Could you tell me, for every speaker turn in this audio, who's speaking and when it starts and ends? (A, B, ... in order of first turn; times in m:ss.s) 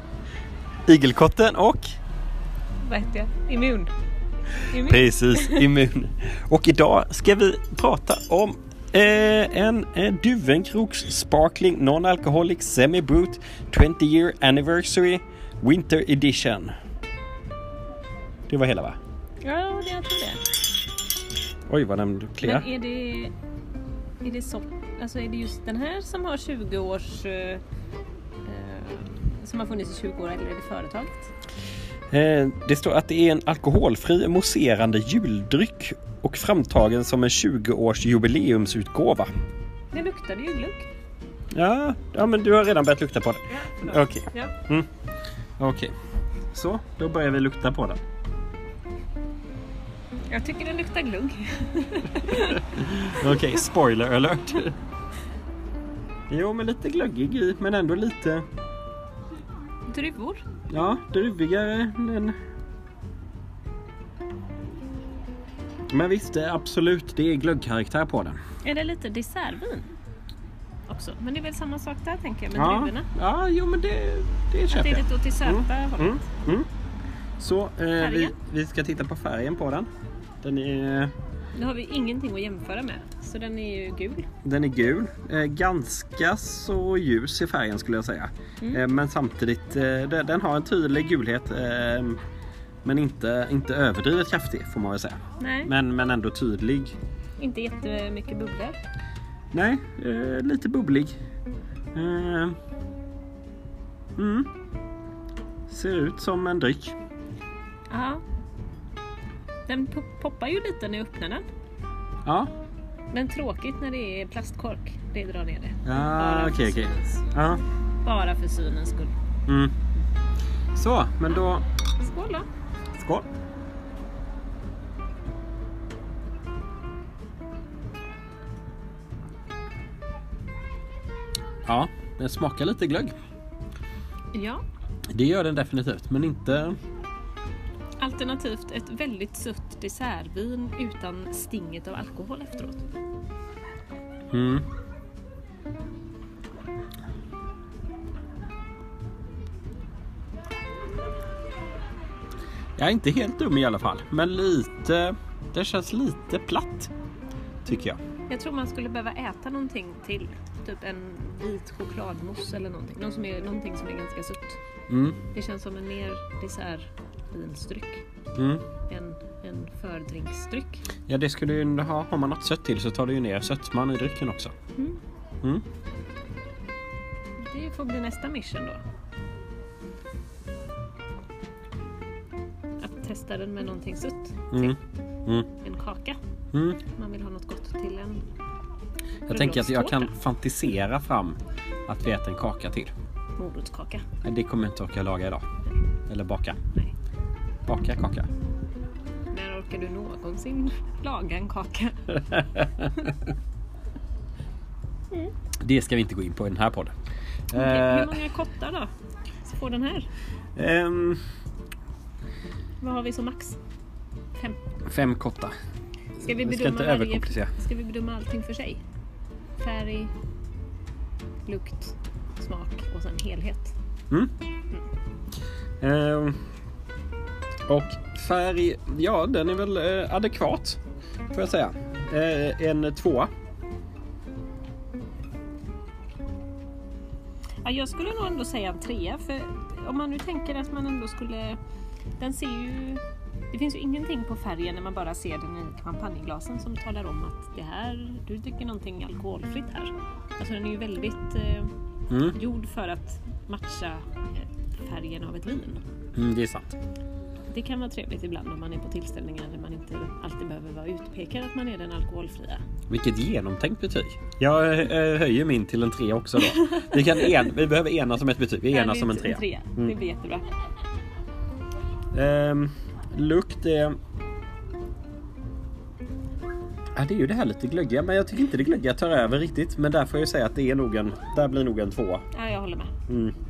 0:00.9-0:02.0 A
0:02.8-0:03.9 B
0:04.7-0:05.7 B
0:04.7-0:16.7 A
0:18.5-0:19.0 A
0:19.4-0:20.4 B
0:21.7-0:22.7 A
0:22.4-0:23.3 B
0:24.2-0:27.6 B
0:28.4-0:31.3 B
0:32.1-0:39.3 A
0:39.9-0:40.9 B
0:41.5-0:44.9 A
0:44.3-0:44.6 B
0:45.6-0:45.9 A
0:46.5-0:48.0 A
0:50.3-0:53.6 B
0:52.7-0:54.7 A
0:56.3-0:58.4 A
0:59.9-1:00.4 B
1:00.7-1:02.3 A
1:05.9-1:08.4 A
1:08.6-1:09.9 B
1:10.9-1:13.1 B
1:12.6-1:16.7 A
1:14.7-1:16.2 B
1:17.4-1:19.9 A
1:18.0-1:18.4 B
1:20.4-1:21.1 A
1:21.6-1:24.3 B
1:24.4-1:32.2 A
1:32.8-1:37.0 A
1:35.4-1:35.7 B
1:37.4-1:38.8 B
1:39.5-1:41.1 A
1:41.9-1:42.6 A
1:44.2-1:44.5 A
1:45.7-1:47.0 A
1:47.9-1:48.2 B
1:49.7-1:51.4 B
1:52.2-1:52.5 A
1:53.1-1:57.4 B
1:55.9-1:57.6 A
1:58.0-1:59.1 B
1:59.5-1:59.7 A
2:00.7-2:01.6 A
2:02.0-2:02.4 B
2:03.0-2:03.2 A
2:11.7-2:13.2 A
2:14.3-2:14.6 B
2:15.1-2:16.8 A
2:18.0-2:22.9 B
2:24.3-2:24.7 A
2:32.8-2:36.9 A
2:37.6-2:38.0 A
2:38.3-2:44.6 B
2:44.9-2:45.2 A
2:45.3-2:48.0 B
2:48.4-2:48.6 A
2:48.9-2:50.9 B
2:51.1-2:54.5 A
2:57.4-2:58.8 B
3:02.8-3:04.8 B
3:04.5-3:05.5 A
3:05.5-3:06.2 B
3:06.5-3:06.8 A
3:06.9-3:08.2 B
3:09.3-3:12.9 A
3:09.3-3:10.1 B
3:13.4-3:14.0 B
3:14.2-3:15.4 A
3:16.1-3:16.6 A
3:17.7-3:18.3 A
3:19.3-3:23.1 B
3:25.6-3:26.9 A
3:27.5-3:28.2 A
3:27.5-3:28.9 B
3:29.4-3:30.1 B
3:30.6-3:31.2 A
3:32.8-3:33.6 B
3:34.3-3:34.6 B
3:34.9-3:35.5 A
3:36.2-3:38.8 B
3:36.2-3:37.5 A
3:39.6-3:40.1 B
3:41.5-3:43.7 B
3:45.8-3:46.4 A
3:47.7-3:50.8 A
3:51.3-3:53.3 A
3:57.6-4:01.6 B
4:02.2-4:11.7 B
4:12.1-4:12.4 A
4:12.2-4:15.8 B
4:16.2-4:16.8 A
4:17.5-4:22.6 B
4:22.9-4:30.0 A
4:26.4-4:27.5 B
4:28.7-4:30.4 B
4:32.1-4:34.0 A
4:36.9-4:42.2 A
4:42.3-4:42.9 B
4:43.1-4:43.3 A